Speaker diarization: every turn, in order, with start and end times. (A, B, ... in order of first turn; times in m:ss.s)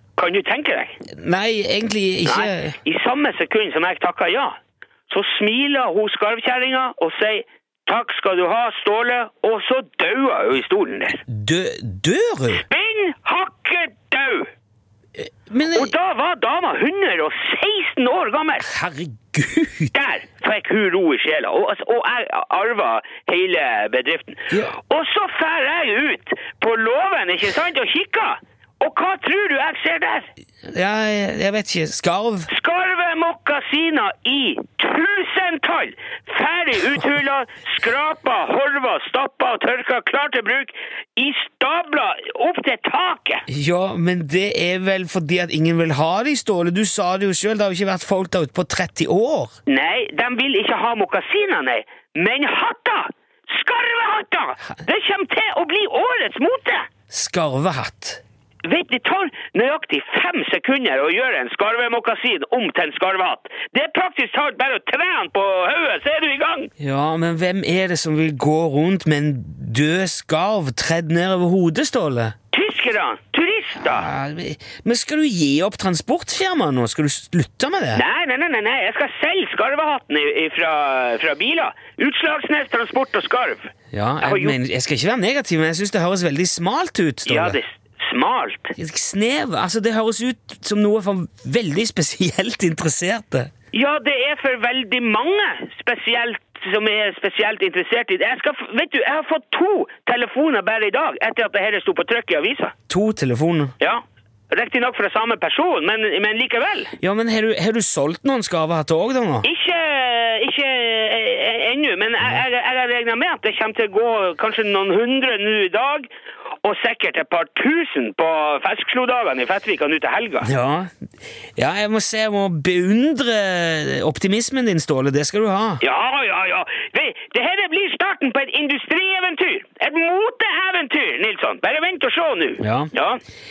0:00.2-0:01.0 A
0:01.0-0:02.8 B
0:02.3-0:04.5 A
0:05.1-0:11.2 A
0:11.3-0:12.6 B
0:12.6-0:14.5 A
0:15.2-0:15.9 B
0:15.8-0:18.7 A
0:18.6-0:19.9 B
0:20.0-0:30.3 A
0:24.5-0:24.8 B
0:30.7-0:32.5 B
0:32.5-0:43.5 A
0:43.5-0:49.5 B
0:49.7-0:56.9 A
0:57.1-0:58.2 B
0:58.7-1:06.7 A
1:06.8-1:12.3 B
1:12.5-1:14.0 A
1:13.7-1:18.0 B
1:18.0-1:23.7 A
1:23.9-1:27.6 B
1:24.2-1:24.5 A
1:27.3-1:28.7 A
1:28.8-1:33.5 B
1:33.7-1:42.7 A
1:42.9-1:43.7 B
1:43.8-1:46.9 A
1:47.0-1:49.5 B
1:49.5-1:56.1 A
1:56.6-2:00.5 A
2:00.4-2:00.9 B
2:01.6-2:05.8 B
2:05.8-2:13.2 A
2:12.6-2:12.9 B